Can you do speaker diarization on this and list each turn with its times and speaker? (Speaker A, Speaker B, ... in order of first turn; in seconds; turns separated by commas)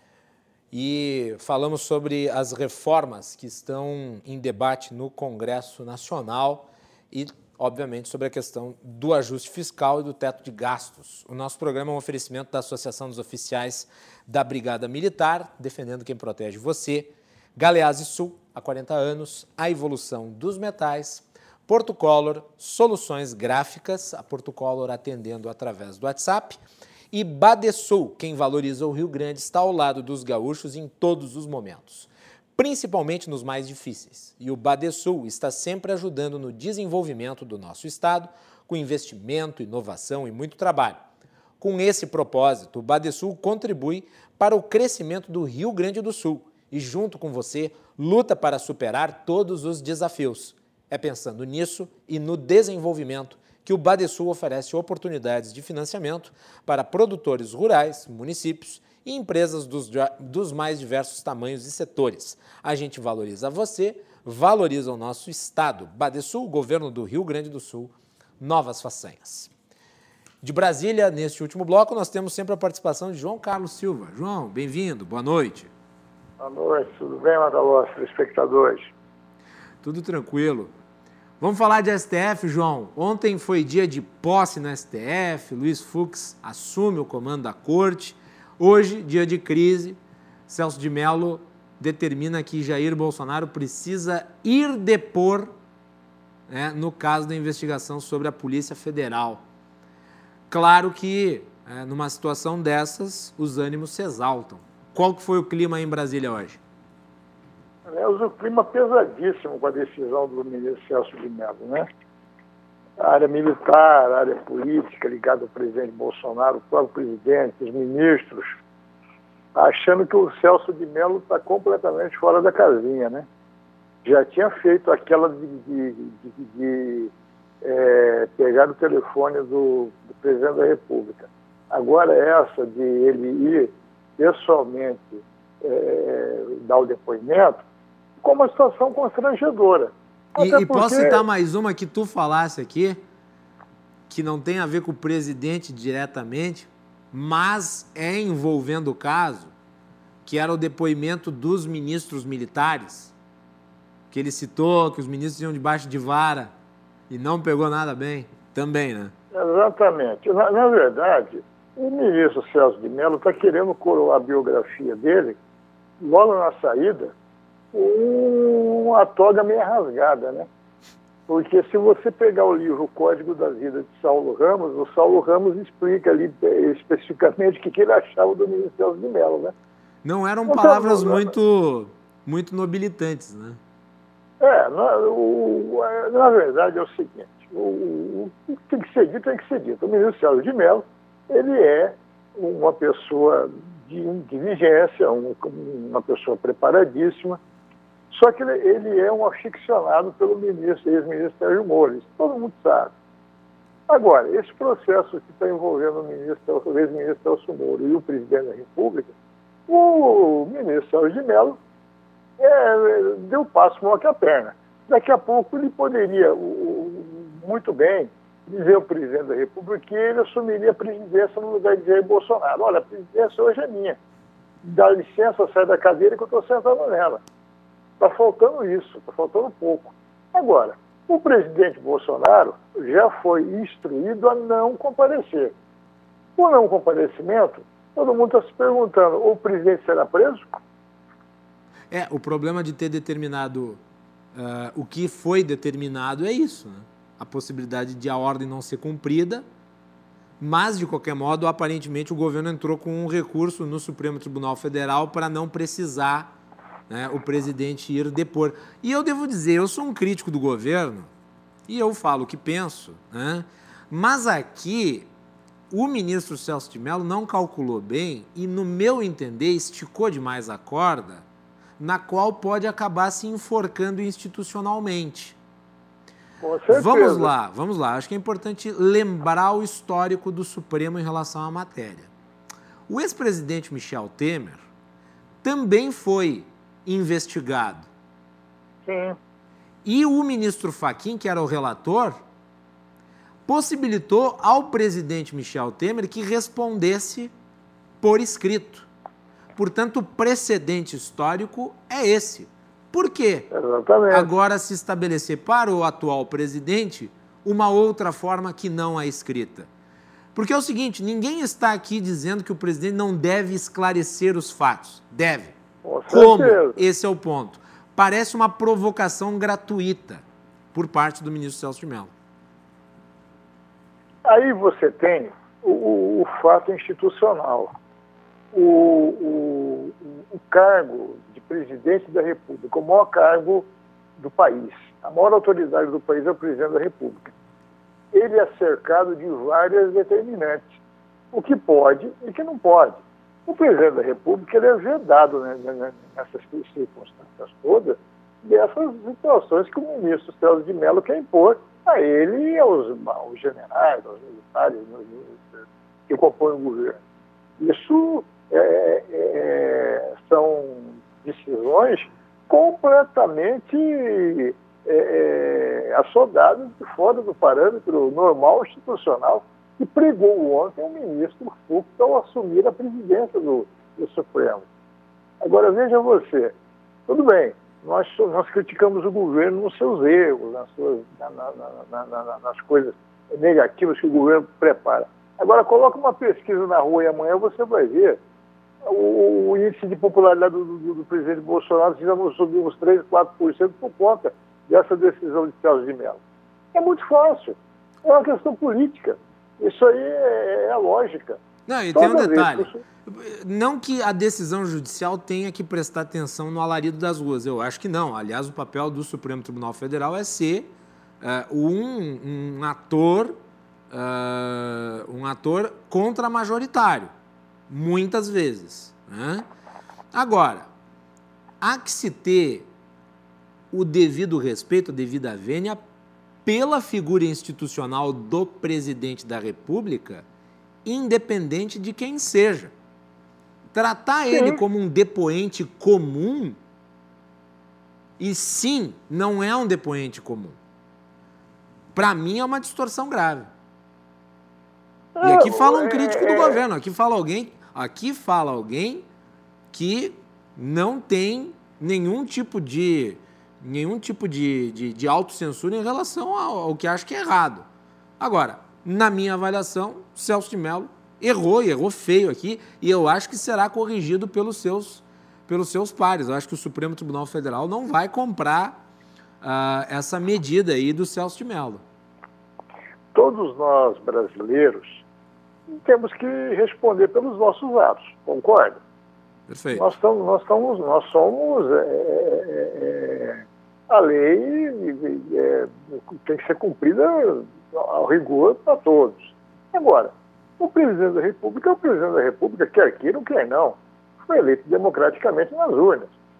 Speaker A: 0.7-26.6, Speaker A: 27.1-41.0, Speaker A: 41.6-69.5, Speaker A: 70.4-75.7, Speaker B: 76.4-78.9, Speaker A: 79.8-80.7, Speaker A: 81.4-95.5, Speaker A: 96.5-99.4, Speaker A: 100.5-106.6, Speaker B: 107.8-111.9, Speaker B: 113.0-118.6, Speaker B: 119.5-123.3, Speaker B: 124.0-137.6, Speaker B: 138.2-141.2, Speaker A: 140.4-143.0, Speaker A: 144.1-149.5, Speaker A: 150.2-153.1, Speaker A: 154.1-156.5, Speaker A: 157.1-159.1, Speaker B: 159.3-165.4, Speaker B: 166.0-167.1, Speaker B: 167.7-170.5, Speaker B: 171.3-179.5, Speaker A: 180.0-183.6, Speaker B: 180.5-181.3, Speaker B: 184.4-197.4, Speaker B: 198.1-202.9, Speaker B: 203.9-209.1, Speaker B: 209.7-211.6, Speaker B: 212.4-224.0, Speaker B: 224.6-227.2, Speaker B: 228.0-235.5, Speaker B: 236.4-240.6, Speaker A: 241.9-243.8, Speaker A: 244.3-249.4, Speaker A: 250.4-256.3, Speaker A: 256.9-261.1, Speaker A: 261.7-265.1, Speaker A: 265.7-271.2, Speaker A: 271.8-275.4, Speaker B: 276.4-277.3, Speaker A: 276.7-282.1, Speaker A: 282.9-284.6, Speaker A: 285.4-287.9, Speaker B: 288.9-289.2, Speaker A: 289.8-292.2, Speaker A: 293.4-297.3, Speaker A: 298.0-298.9, Speaker A: 299.6-303.5, Speaker B: 303.5-304.3, Speaker A: 304.1-309.7, Speaker A: 310.3-315.5, Speaker B: 315.8-316.8, Speaker A: 316.1-320.2, Speaker A: 320.7-322.1, Speaker B: 324.2-327.7, Speaker B: 328.5-337.3, Speaker B: 338.1-340.8, Speaker B: 341.3-357.0, Speaker B: 357.6-374.7, Speaker B: 375.4-376.5, Speaker B: 377.1-388.2, Speaker B: 388.8-396.2, Speaker B: 396.7-401.4, Speaker A: 401.7-410.7, Speaker B: 401.9-402.8, Speaker A: 411.2-413.4, Speaker A: 413.9-417.1, Speaker A: 417.7-419.4, Speaker A: 420.1-420.7, Speaker A: 421.6-422.7, Speaker A: 423.7-425.8, Speaker A: 426.4-430.2, Speaker A: 430.8-432.7, Speaker A: 433.7-436.6, Speaker B: 434.3-434.6, Speaker A: 438.2-440.6, Speaker A: 441.9-443.5, Speaker B: 445.1-446.6, Speaker A: 445.2-449.0, Speaker A: 449.7-457.6, Speaker A: 458.2-468.8, Speaker A: 469.4-471.8, Speaker B: 473.1-475.0, Speaker B: 475.7-478.8, Speaker A: 479.5-479.9, Speaker B: 479.7-496.1